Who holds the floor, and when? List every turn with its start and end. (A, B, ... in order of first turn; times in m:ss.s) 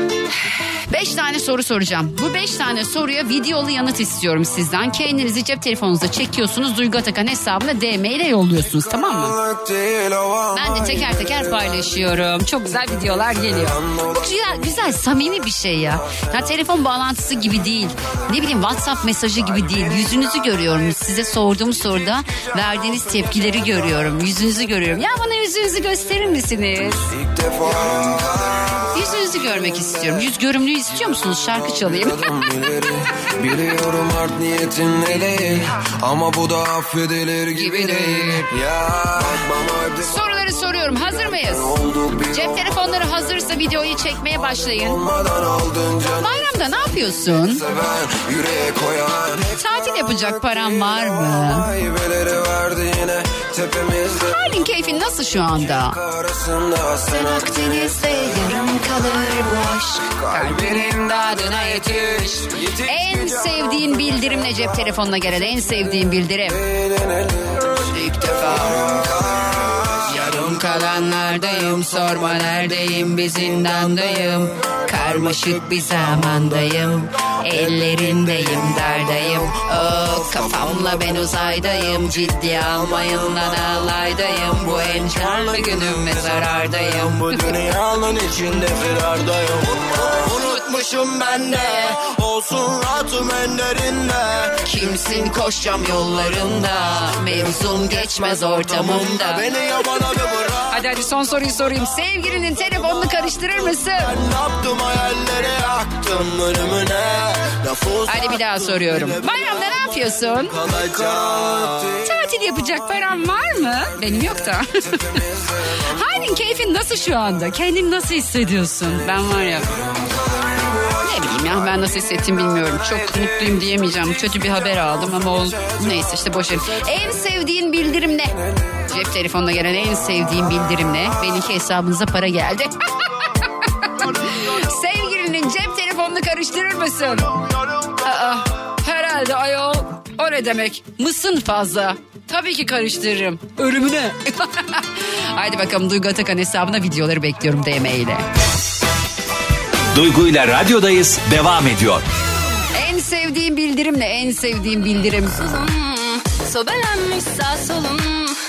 0:00.9-0:09.4 A
0:09.4-0:11.2 B
0:10.5-0:27.1 A
0:27.2-0:28.8 B
0:28.9-0:32.2 A
0:32.2-0:40.1 B
0:37.5-0:38.5 A
0:40.0-0:41.8 A
0:41.8-0:42.3 B
0:42.3-0:45.0 A
0:45.1-0:46.3 B
0:46.1-0:47.6 A
0:47.7-0:49.5 B
0:49.6-0:51.7 A
0:51.7-0:54.2 B
0:54.1-0:56.0 A
0:56.0-0:57.2 B
0:57.0-1:06.6 A
1:07.0-1:07.6 B
1:07.8-1:09.0 A
1:09.9-1:27.6 A
1:27.6-1:30.4 B
1:30.3-1:32.1 A
1:32.1-1:34.2 B
1:34.6-1:44.2 A
1:44.4-1:47.8 B
1:48.0-1:50.6 A
1:50.8-1:51.9 B
1:52.0-1:59.7 A
2:01.0-2:12.7 A
2:13.8-2:17.4 A
2:17.9-2:28.2 A
2:29.9-2:32.0 C
2:32.7-2:35.4 A
2:35.4-2:38.4 D